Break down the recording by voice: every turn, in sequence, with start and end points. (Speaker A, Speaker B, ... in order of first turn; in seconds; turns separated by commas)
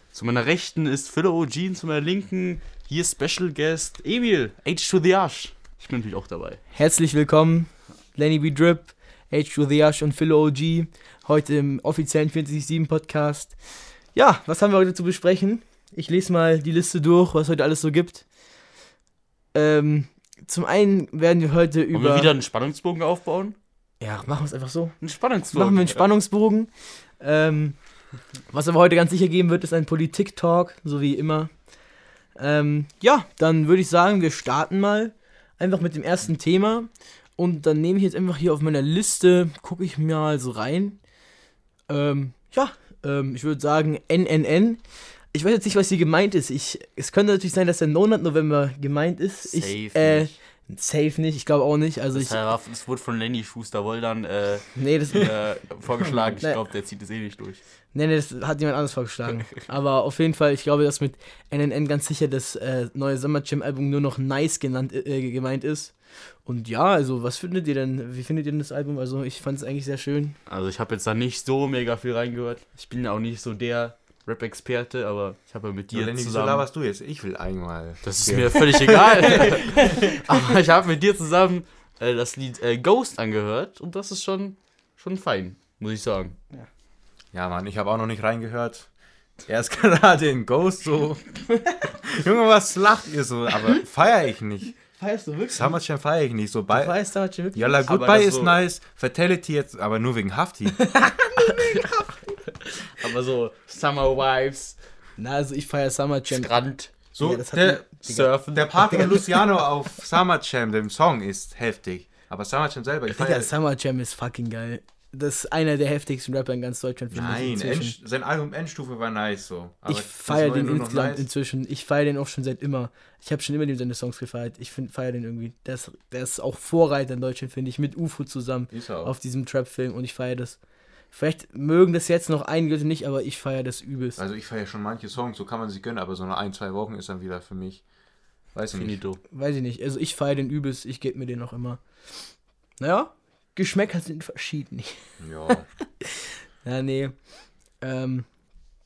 Speaker A: 0.1-6.6, Speaker B: 6.7-18.3, Speaker B: 19.5-22.3, Speaker A: 21.9-23.6, Speaker B: 24.0-27.8, Speaker A: 25.0-26.0, Speaker B: 28.5-31.7, Speaker B: 32.3-41.0, Speaker B: 41.9-52.4, Speaker A: 49.4-50.4, Speaker A: 52.1-57.6, Speaker B: 54.8-55.6, Speaker C: 56.0-56.3, Speaker B: 57.9-70.4, Speaker A: 70.5-76.6, Speaker C: 75.9-80.0, Speaker A: 78.0-86.4, Speaker C: 87.3-88.9, Speaker C: 89.4-91.4, Speaker C: 92.1-94.8, Speaker B: 95.0-95.8, Speaker C: 95.5-96.9, Speaker B: 96.7-98.2, Speaker C: 97.5-101.0, Speaker A: 97.9-98.5, Speaker B: 100.9-102.2, Speaker A: 101.4-102.0, Speaker A: 102.5-104.8, Speaker B: 105.2-108.3, Speaker A: 106.3-106.9, Speaker C: 107.1-113.5, Speaker A: 108.0-109.2, Speaker B: 108.8-109.2, Speaker B: 113.1-117.9, Speaker C: 117.1-121.3, Speaker B: 119.9-134.2, Speaker C: 128.7-129.1, Speaker C: 134.2-137.8, Speaker C: 138.5-139.0, Speaker A: 138.7-139.2, Speaker B: 139.3-145.2, Speaker C: 145.2-145.7, Speaker B: 146.6-148.5